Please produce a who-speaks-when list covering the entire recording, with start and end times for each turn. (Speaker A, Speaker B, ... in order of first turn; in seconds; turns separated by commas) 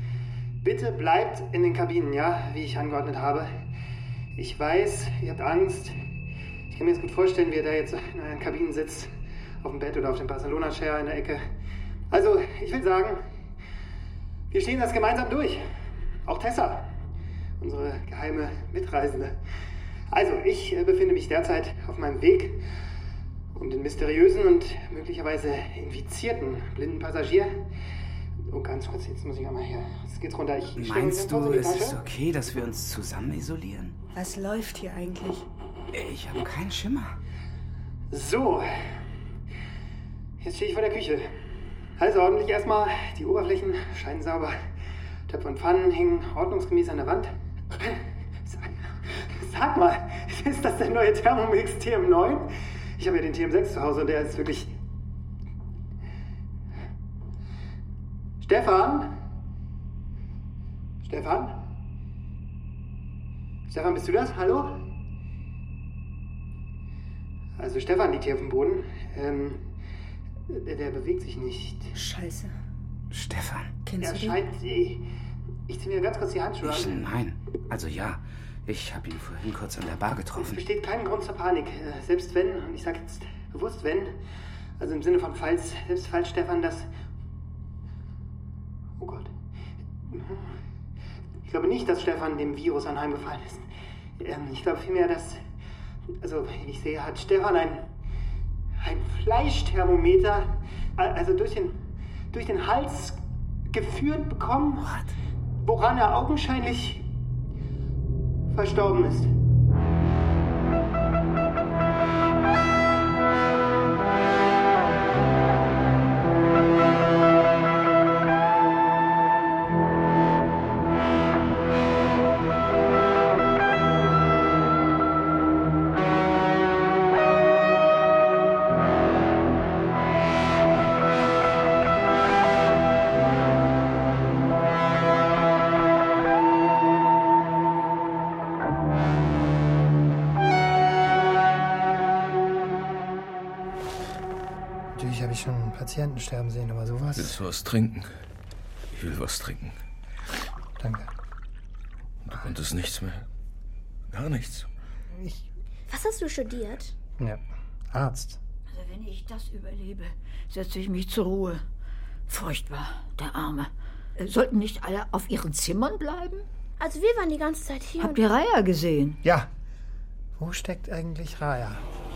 Speaker A: 0.6-3.5, Speaker A: 4.3-5.9, Speaker A: 6.7-9.1, Speaker A: 9.6-11.4, Speaker A: 12.1-13.2, Speaker A: 14.5-15.6, Speaker A: 16.2-16.9, Speaker A: 17.6-19.4, Speaker A: 20.1-22.6, Speaker A: 23.5-27.6, Speaker A: 28.5-32.0, Speaker B: 30.8-34.0, Speaker C: 34.1-35.5, Speaker B: 35.9-37.1, Speaker A: 38.1-38.7, Speaker A: 40.4-41.3, Speaker A: 42.0-44.5, Speaker A: 45.3-48.7, Speaker A: 49.4-54.7, Speaker A: 58.4-59.1, Speaker A: 61.0-61.6, Speaker A: 63.7-64.8, Speaker A: 67.6-69.6, Speaker A: 70.5-71.9, Speaker C: 71.9-72.5, Speaker B: 73.1-73.7, Speaker C: 73.8-74.4, Speaker A: 74.0-75.0, Speaker A: 75.7-77.0, Speaker B: 76.6-80.6, Speaker A: 80.3-84.2, Speaker A: 84.8-86.9, Speaker A: 89.0-89.3, Speaker A: 90.0-90.5, Speaker A: 91.5-93.6, Speaker A: 94.2-95.4, Speaker A: 96.2-97.9, Speaker A: 98.8-101.8, Speaker A: 102.3-105.0, Speaker B: 104.8-105.1, Speaker A: 105.6-107.0, Speaker A: 108.5-109.3, Speaker A: 144.9-147.3, Speaker D: 147.2-148.1, Speaker D: 148.9-149.7, Speaker A: 150.8-151.1, Speaker D: 152.2-153.2, Speaker D: 154.1-154.7, Speaker E: 155.9-156.9, Speaker A: 157.2-158.4, Speaker F: 158.7-161.6, Speaker F: 162.3-166.4, Speaker E: 166.8-168.2, Speaker F: 168.0-169.2, Speaker A: 169.2-169.5, Speaker A: 170.4-171.8